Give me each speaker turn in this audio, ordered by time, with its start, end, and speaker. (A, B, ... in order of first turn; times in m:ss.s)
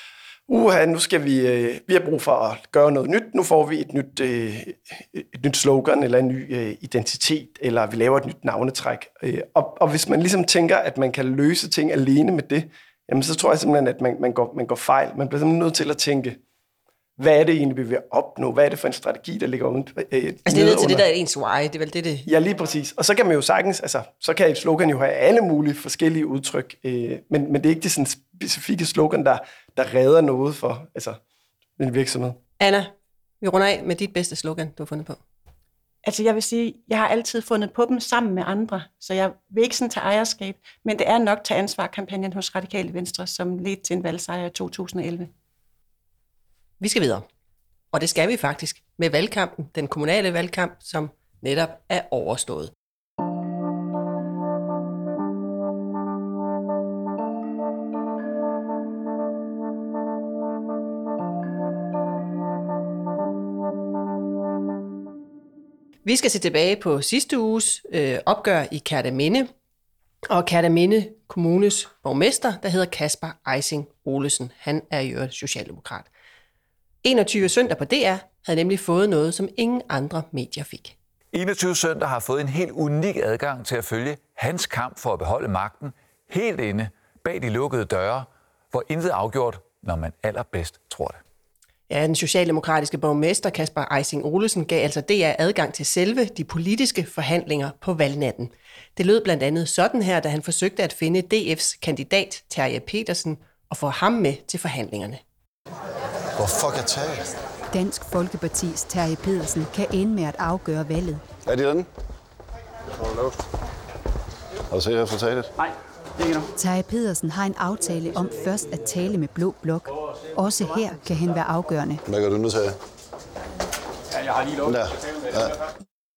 0:00.5-0:16.4 A
0:17.2-0:21.0 A
0:20.4-0:22.3 B
0:22.2-0:31.2 A
0:31.8-0:32.4 A
0:32.6-0:35.2 B
0:36.0-0:45.3 C
0:46.8-0:47.2 B
0:47.9-0:52.7 B
1:06.0-1:09.5 B
1:10.3-1:16.1 B
1:17.0-1:21.0 B
1:21.3-1:31.2 D
1:31.9-1:45.2 B
1:46.4-1:47.3 E
1:47.7-1:51.2 F
1:51.4-1:51.9 E
1:54.7-1:55.5 E
1:56.5-2:02.0 F
2:02.0-2:02.8 E
2:04.5-2:05.5 E